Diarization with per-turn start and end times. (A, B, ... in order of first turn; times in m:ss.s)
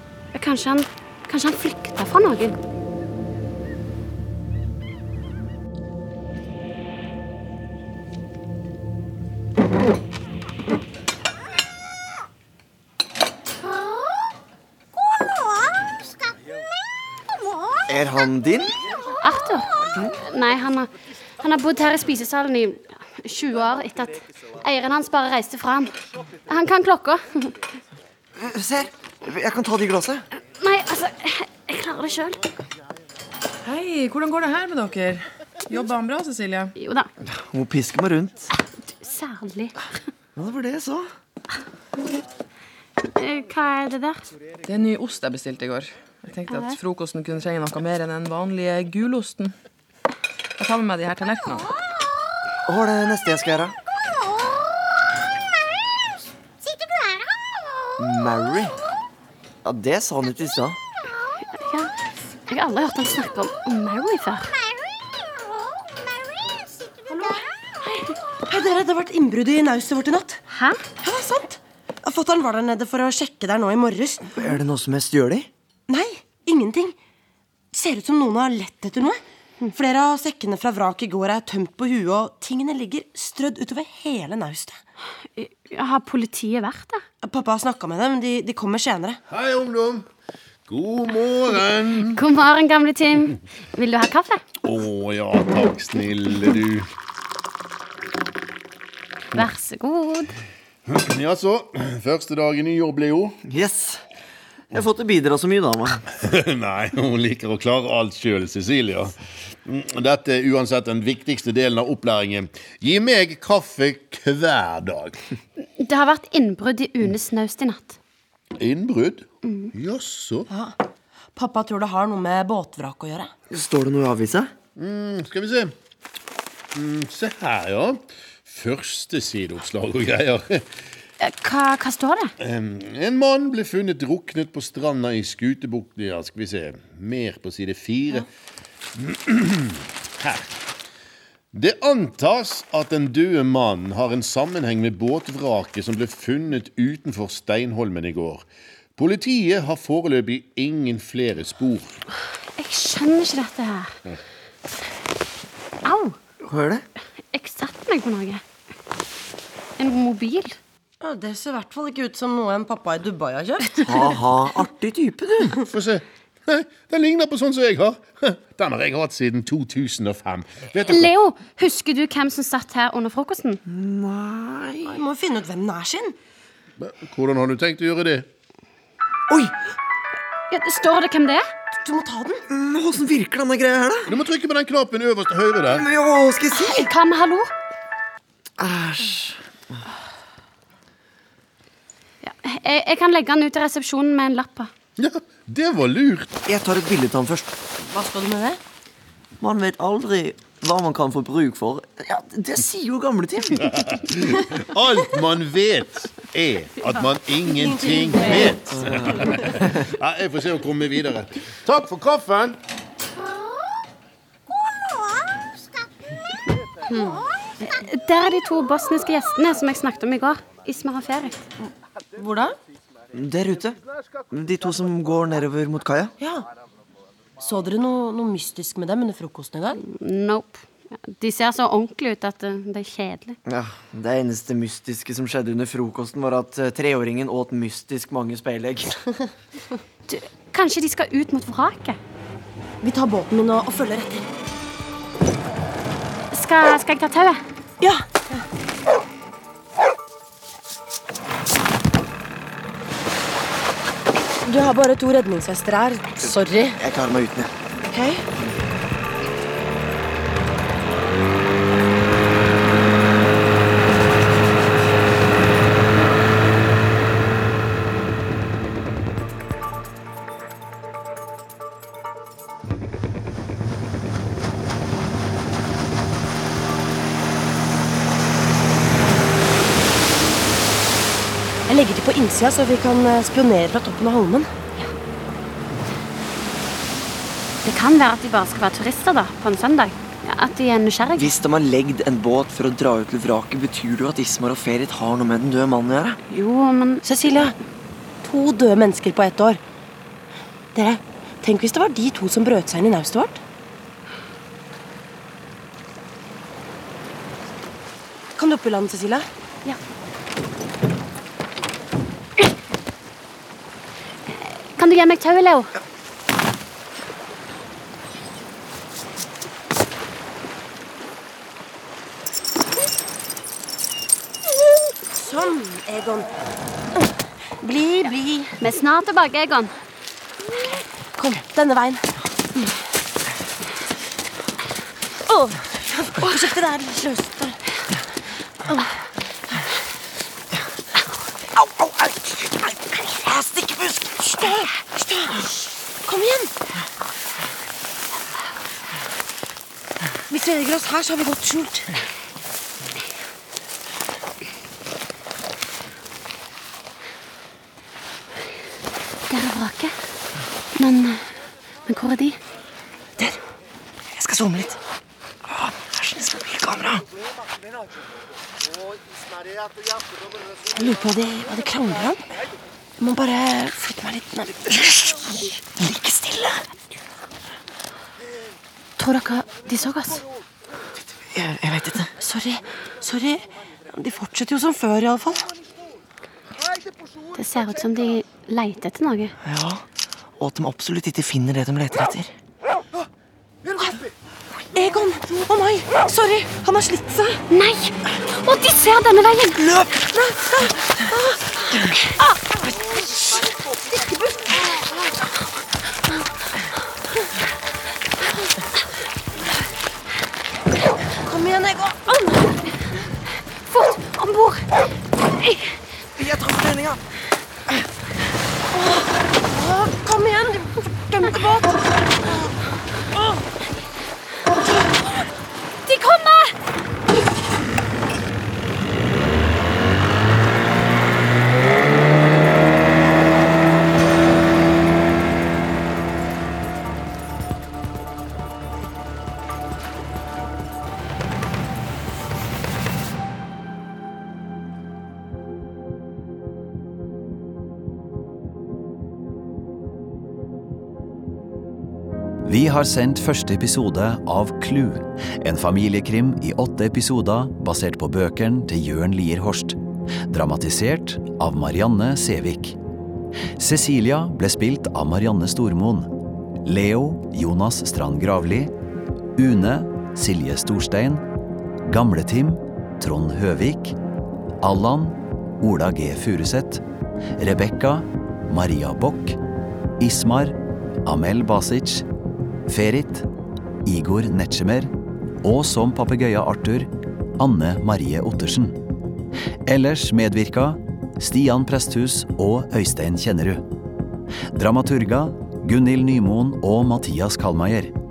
0:00.3-0:02.6 A
0:17.9-0:18.8 B
0:19.2-0:26.0 A
0:26.5-0:27.6 A
0:28.4-0:30.3 B
0:30.6-0:32.5 A
0:33.6-0:36.7 C
0:36.8-0:37.1 A
0:37.2-0:38.5 B
0:39.0-0:39.8 A
0:40.4-0:41.1 B
0:43.2-0:44.3 A
0:44.6-0:49.5 C
0:46.5-0:46.8 A
0:50.6-0:51.7 C
0:52.7-0:53.8 B
0:58.0-0:58.8 B
0:59.6-1:00.8 B
1:01.6-1:01.9 A
1:02.5-1:04.6 A
1:07.1-1:10.4 D
1:10.5-1:10.8 A
1:11.0-1:14.5 D
1:14.4-1:15.5 B
1:15.9-1:17.0 D
1:17.7-1:19.2 D
1:19.7-1:24.8 D
1:25.4-1:27.0 A
1:27.2-1:29.2 D
1:29.3-1:30.1 E
1:30.7-1:32.2 E
1:32.1-1:34.4 A
1:34.6-1:36.9 E
1:39.3-1:40.3 A
1:40.9-1:43.4 E
1:43.4-1:44.0 B
1:44.7-1:46.0 B
1:46.1-1:55.2 E
1:55.6-1:58.0 A
1:58.6-2:00.5 E
1:59.4-1:59.7 A
2:00.5-2:00.8 D
2:01.4-2:03.3 D
2:03.5-2:04.5 B
2:04.8-2:05.7 E
2:06.7-2:10.7 E
2:11.2-2:12.3 A
2:12.4-2:18.3 E
2:18.9-2:20.5 E
2:21.5-2:28.4 E
2:29.0-2:32.0 E
2:32.6-2:33.9 A
2:35.8-2:36.2 A
2:36.4-2:36.8 B
2:37.3-2:38.4 A
2:39.8-2:40.6 A
2:41.0-2:44.0 D
2:43.8-2:45.6 B
2:45.5-2:51.1 E
2:50.9-2:53.6 A
2:53.7-2:55.0 B
2:54.8-2:56.2 D
2:56.8-2:58.3 E
2:59.3-2:59.5 B
3:00.5-3:01.5 A
3:01.8-3:02.4 D
3:02.5-3:04.2 B
3:04.1-3:05.9 E
3:05.7-3:07.0 B
3:06.5-3:07.5 A
3:08.6-3:09.8 B
3:12.2-3:14.7 A
3:15.0-3:16.3 E
3:16.5-3:17.5 B
3:17.8-3:18.6 D
3:19.4-3:23.8 B
3:23.6-3:32.6 E
3:27.5-3:28.7 D
3:28.7-3:29.8 B
3:36.9-3:37.3 D
3:37.6-3:41.4 A
3:41.6-3:42.6 D
3:43.1-3:43.8 B
3:44.3-3:46.1 B
3:46.2-3:46.5 D
3:47.4-3:49.8 D
3:49.8-3:53.4 A
3:53.5-3:59.1 B
4:00.1-4:02.0 A
4:02.8-4:04.3 D
4:06.3-4:07.4 A
4:07.8-4:08.4 D
4:14.4-4:16.8 D
4:16.2-4:17.5 B
4:17.9-4:18.3 D
4:41.7-4:44.5 D
4:47.6-4:51.3 A
4:51.2-4:56.2 B
4:56.3-4:57.0 A
4:57.0-4:57.6 D
4:58.2-4:59.6 D
5:00.8-5:03.4 D
5:08.4-5:09.3 D
5:14.3-5:15.7 A
5:25.2-5:26.3 D
5:27.0-5:28.6 D
5:28.6-5:29.7 A
5:30.5-5:32.1 D
5:35.3-5:37.6 D
5:38.6-5:39.6 D
5:41.5-5:44.7 B
5:44.4-5:46.5 D
5:50.3-5:52.0 D
5:59.3-6:00.0 A
6:00.8-6:01.2 A
6:01.9-6:02.4 A
6:04.1-6:04.8 B
6:05.4-6:07.0 B
6:10.8-6:12.3 D
6:13.0-6:15.5 D
6:15.8-6:16.6 B
6:19.0-6:20.2 D
6:21.3-6:22.1 B
6:22.2-6:25.5 D
6:27.4-6:29.4 A
6:29.4-6:29.8 B
6:30.4-6:32.4 B
6:33.7-6:34.0 D
6:34.7-6:37.4 D
6:37.5-6:39.6 A
6:39.6-6:40.1 B
6:40.0-6:45.3 D
6:51.2-6:52.7 D
6:53.7-6:54.7 A
6:55.4-6:55.8 A
6:56.2-6:57.0 B
6:58.7-7:02.3 D
7:03.2-7:03.4 D
7:04.6-7:05.3 D
7:05.9-7:06.5 A
7:32.4-7:42.8 F
7:43.6-7:46.1 F
7:46.6-7:48.7 F
7:49.4-7:51.2 F
7:51.9-7:54.0 F
7:54.6-7:56.8 F
7:57.4-7:59.4 F
8:00.0-8:02.0 F
8:02.7-8:03.3 F
8:03.8-8:04.9 F
8:05.4-8:08.8 F
8:09.7-8:13.6 F
8:14.5-8:17.9 F